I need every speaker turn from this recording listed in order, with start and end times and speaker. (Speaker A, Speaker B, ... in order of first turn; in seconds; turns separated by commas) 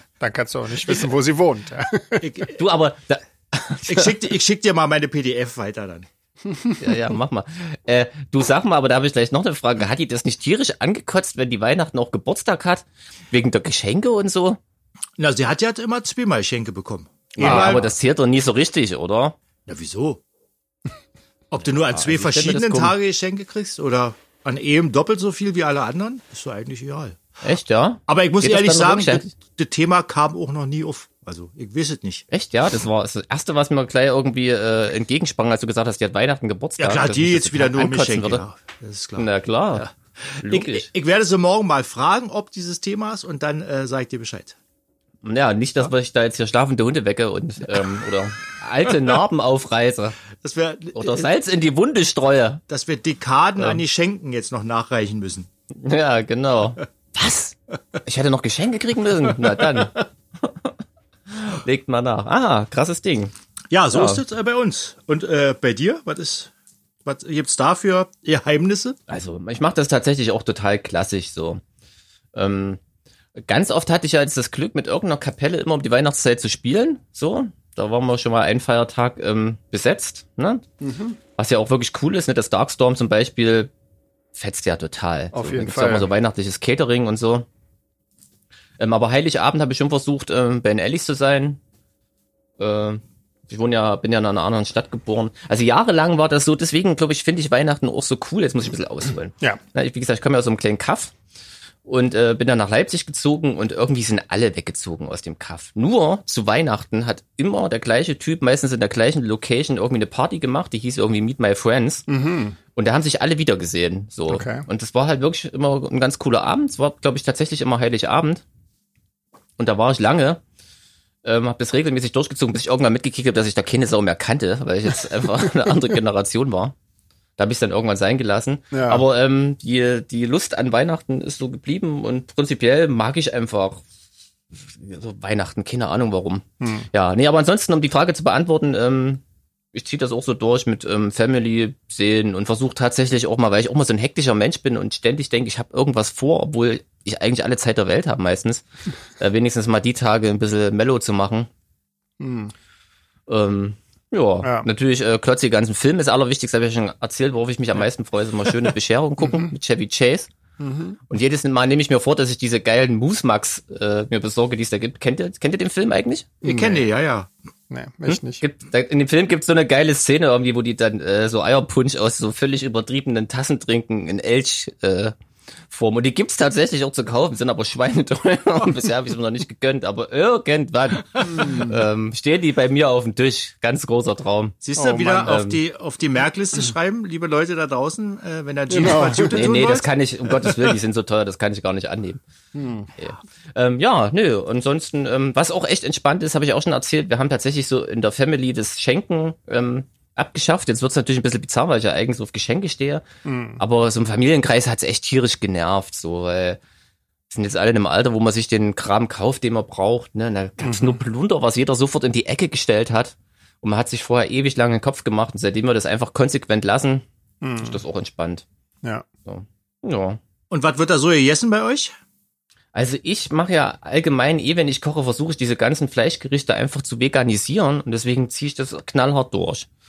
Speaker A: 0.2-2.3, Speaker B: 2.2-2.6, Speaker C: 2.5-4.1, Speaker B: 3.9-6.1, Speaker C: 6.8-14.6, Speaker B: 15.2-17.9, Speaker C: 17.4-19.4, Speaker A: 17.4-17.8, Speaker B: 19.7-20.2, Speaker B: 21.5-27.2, Speaker C: 21.9-23.0, Speaker C: 27.4-29.3, Speaker B: 28.1-32.2, Speaker C: 32.3-38.4, Speaker B: 36.8-44.6, Speaker C: 39.2-39.9, Speaker C: 40.4-40.9, Speaker C: 45.2-50.2, Speaker B: 50.4-51.3, Speaker C: 51.0-52.6, Speaker B: 52.7-55.5, Speaker C: 55.8-60.7, Speaker B: 59.6-59.9, Speaker C: 61.3-63.3, Speaker B: 63.7-66.5, Speaker C: 63.9-64.2, Speaker B: 67.0-69.0, Speaker C: 69.1-71.6, Speaker C: 72.3-72.8, Speaker C: 73.5-80.6, Speaker A: 80.8-81.2, Speaker C: 81.4-83.7, Speaker C: 84.3-87.5, Speaker A: 85.3-86.1, Speaker C: 88.8-91.6, Speaker C: 92.6-101.1, Speaker C: 101.9-112.1, Speaker A: 112.1-112.6, Speaker C: 112.8-118.4, Speaker A: 114.3-114.7, Speaker C: 119.6-120.4, Speaker C: 121.2-126.8, Speaker C: 127.4-133.8, Speaker A: 128.7-129.0, Speaker C: 134.7-139.2, Speaker A: 136.6-136.9, Speaker C: 139.7-148.7, Speaker C: 149.2-151.5, Speaker A: 152.2-152.5, Speaker C: 153.3-160.3, Speaker A: 160.6-161.0, Speaker C: 161.1-166.3, Speaker A: 166.4-166.9, Speaker B: 166.4-167.3, Speaker A: 167.7-168.4, Speaker C: 168.1-175.1, Speaker C: 175.7-184.6, Speaker A: 181.2-181.8, Speaker B: 184.6-189.9, Speaker A: 184.8-185.4, Speaker C: 185.2-185.6, Speaker A: 188.7-189.5, Speaker C: 189.3-192.2, Speaker A: 192.5-192.9, Speaker C: 193.0-203.1, Speaker A: 203.2-203.6, Speaker C: 203.6-206.6, Speaker C: 207.3-217.0, Speaker A: 210.6-211.0, Speaker A: 217.4-217.8, Speaker C: 217.6-218.4, Speaker C: 219.3-220.2, Speaker B: 220.5-221.9, Speaker C: 222.7-229.7